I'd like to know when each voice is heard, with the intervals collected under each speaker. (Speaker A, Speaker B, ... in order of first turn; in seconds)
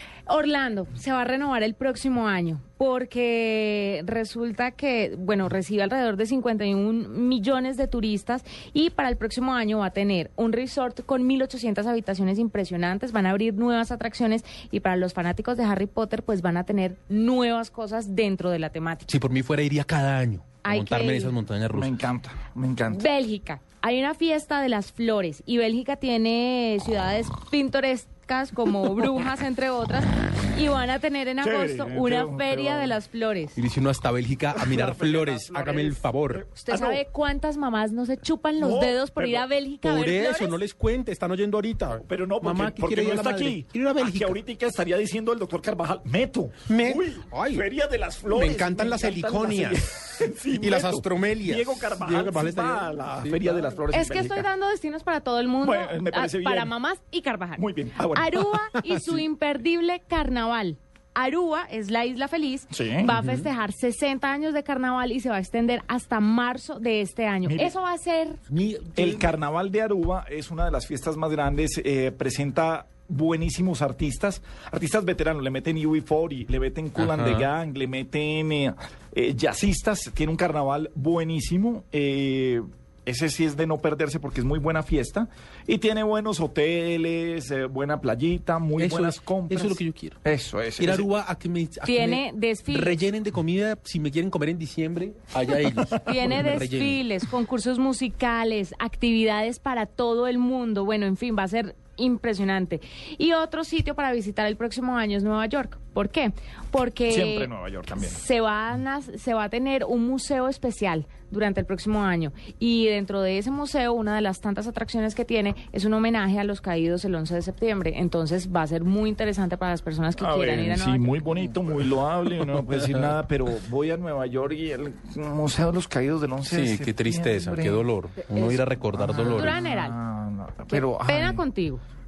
Speaker A: 0.3-19.2, 20.6-21.3, 22.9-33.6, 36.6-40.6, 53.9-68.4, 91.8-93.0, 96.0-121.2, 128.3-128.6, 129.2-129.9, 130.7-131.8
Speaker B: 19.1-21.9, 33.6-36.4, 39.8-44.4, 46.7-47.6, 48.3-53.6, 58.7-59.2, 63.2-63.5, 68.5-69.2, 77.0-77.5, 88.8-90.2, 90.8-97.0, 122.4-123.1, 126.5-129.6
Speaker C: 21.7-23.0, 31.4-33.0, 34.6-37.0, 38.6-39.5, 42.0-54.5, 55.6-56.7, 57.6-58.4, 62.7-63.1, 67.5-67.7, 68.9-91.1, 107.1-108.2, 120.2-127.8, 128.9-131.4